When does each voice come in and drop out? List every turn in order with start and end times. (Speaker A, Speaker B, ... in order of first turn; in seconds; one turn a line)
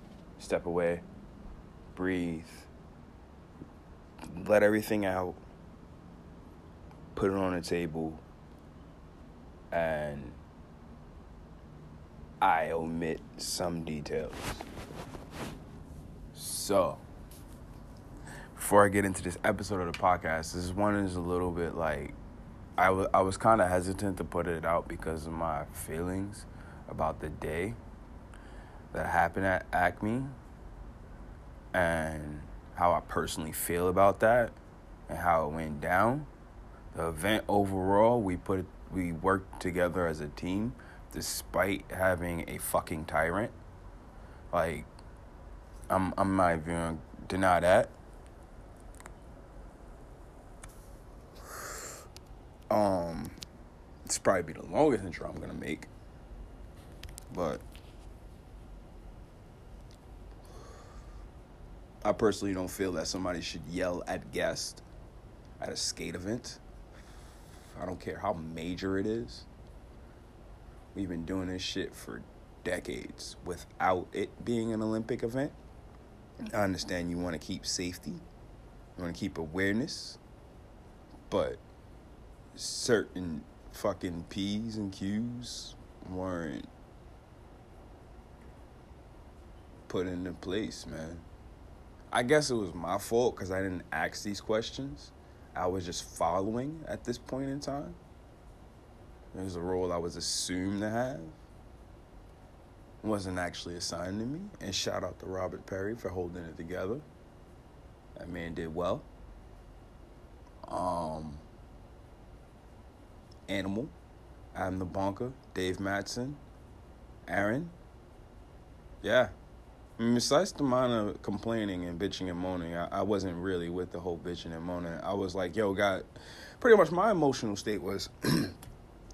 Speaker A: 0.4-1.0
Speaker A: 1.9-2.7
Speaker A: 4.2-5.4
Speaker A: 7.1-8.2
Speaker A: 9.7-10.4
Speaker A: 12.4-14.7
Speaker A: 16.3-17.0
Speaker A: 18.6-22.2
Speaker A: 22.8-27.8
Speaker A: 28.9-30.4
Speaker A: 31.7-36.3
Speaker A: 36.9-43.5
Speaker A: 44.5-44.9
Speaker A: 45.9-47.9
Speaker A: 52.7-53.4
Speaker A: 54.1-55.9
Speaker A: 57.3-57.6
Speaker A: 62.0-64.8
Speaker A: 65.6-66.6
Speaker A: 67.7-69.5
Speaker A: 70.9-75.5
Speaker A: 76.4-78.2
Speaker A: 79.0-80.2
Speaker A: 81.3-81.6
Speaker A: 82.5-86.7
Speaker A: 89.9-91.2
Speaker A: 92.1-98.0
Speaker A: 99.3-101.4
Speaker A: 103.0-107.0
Speaker A: 108.2-109.1
Speaker A: 110.7-111.4
Speaker A: 113.5-113.9
Speaker A: 114.5-116.4
Speaker A: 117.3-117.7
Speaker A: 119.0-119.3
Speaker A: 120.0-126.1
Speaker A: 126.6-128.6